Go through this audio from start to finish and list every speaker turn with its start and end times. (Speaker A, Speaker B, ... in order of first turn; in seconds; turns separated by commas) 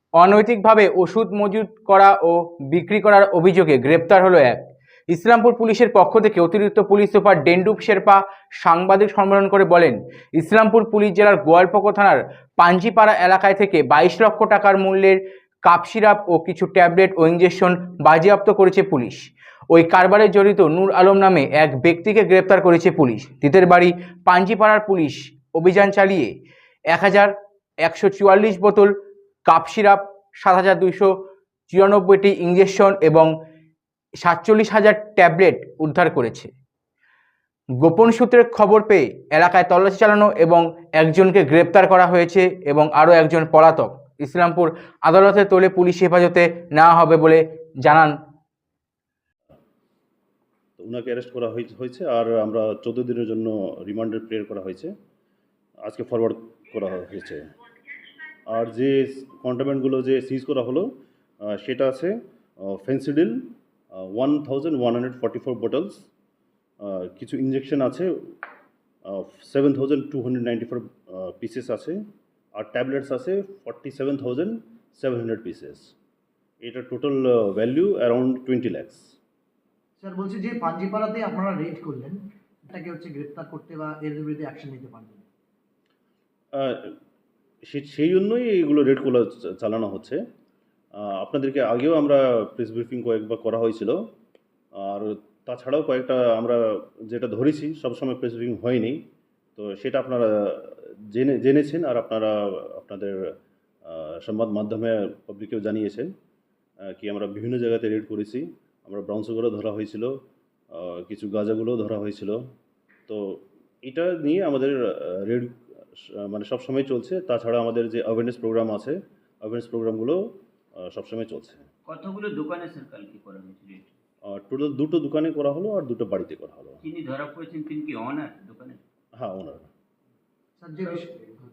Speaker A: 0.2-26.3, Speaker A: 26.9-28.9, Speaker A: 29.4-31.1, Speaker A: 31.7-33.3, Speaker A: 34.2-36.5, Speaker A: 37.8-48.1, Speaker B: 50.8-54.9, Speaker B: 55.8-57.5, Speaker B: 58.5-60.9, Speaker B: 61.4-66.1, Speaker B: 66.8-68.1, Speaker B: 69.0-72.0, Speaker B: 72.6-75.9, Speaker B: 76.6-79.1, Speaker C: 80.0-85.2, Speaker B: 86.5-87.0, Speaker B: 87.7-90.2, Speaker B: 91.0-94.0, Speaker B: 94.8-99.0, Speaker B: 99.5-103.2, Speaker B: 103.8-106.1, Speaker B: 106.9-110.1, Speaker B: 110.7-112.4, Speaker B: 113.1-120.2, Speaker B: 120.8-121.7, Speaker D: 121.8-123.9, Speaker B: 124.3-126.8, Speaker D: 126.8-128.8, Speaker B: 129.2-129.7, Speaker C: 130.6-131.3